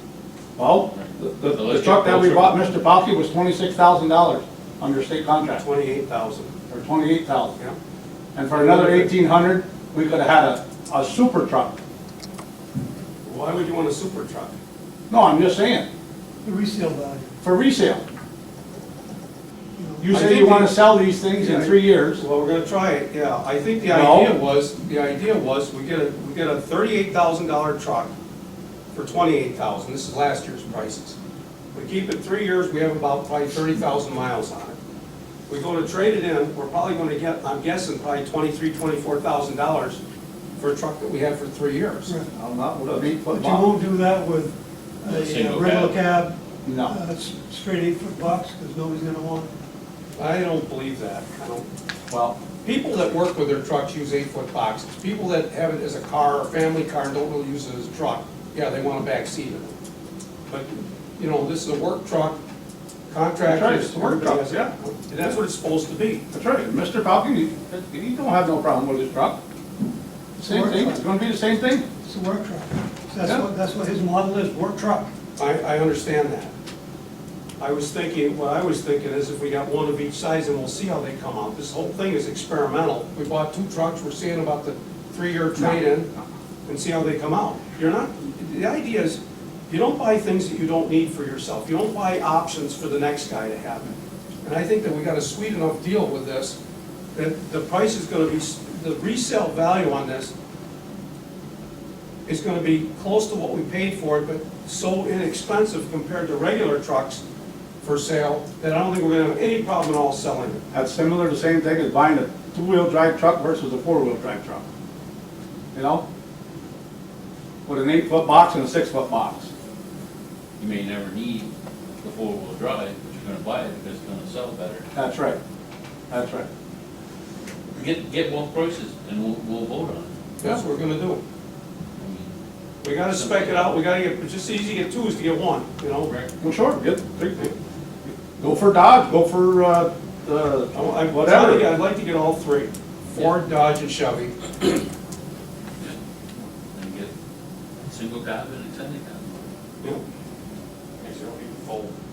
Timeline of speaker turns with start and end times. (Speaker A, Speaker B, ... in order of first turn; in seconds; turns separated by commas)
Speaker A: 0.6-5.6, Speaker B: 0.9-2.6, Speaker C: 5.6-6.5, Speaker A: 6.7-7.6, Speaker A: 8.3-11.8, Speaker C: 8.5-9.1, Speaker C: 13.2-14.6, Speaker A: 15.1-15.9, Speaker D: 16.4-17.3, Speaker A: 17.4-18.0, Speaker D: 19.8-20.2, Speaker A: 20.0-22.2, Speaker C: 20.1-28.1, Speaker A: 23.8-24.4, Speaker C: 28.9-31.1, Speaker C: 31.7-34.8, Speaker C: 35.5-40.0, Speaker C: 40.6-42.1, Speaker A: 42.3-43.7, Speaker D: 43.2-49.5, Speaker B: 45.1-46.0, Speaker A: 46.6-46.9, Speaker C: 50.2-51.6, Speaker A: 52.1-52.4, Speaker C: 52.6-59.7, Speaker C: 60.5-62.4, Speaker C: 63.1-66.2, Speaker A: 63.4-64.7, Speaker A: 66.3-69.4, Speaker A: 70.4-71.9, Speaker D: 70.4-71.0, Speaker D: 72.0-75.1, Speaker C: 75.4-76.5, Speaker C: 77.6-86.1, Speaker C: 86.7-96.6, Speaker C: 97.1-100.3, Speaker C: 102.2-107.2, Speaker C: 107.8-110.6, Speaker A: 110.7-114.6, Speaker A: 115.7-116.0, Speaker A: 117.7-119.5, Speaker B: 120.6-124.9, Speaker A: 124.9-125.4, Speaker A: 126.1-126.5, Speaker B: 127.7-130.2, Speaker C: 130.4-131.2, Speaker B: 132.0-132.3, Speaker C: 132.8-136.1, Speaker B: 133.0-133.8, Speaker A: 136.4-137.5, Speaker A: 138.4-141.7, Speaker C: 140.7-144.7, Speaker B: 146.7-147.1, Speaker B: 147.9-149.4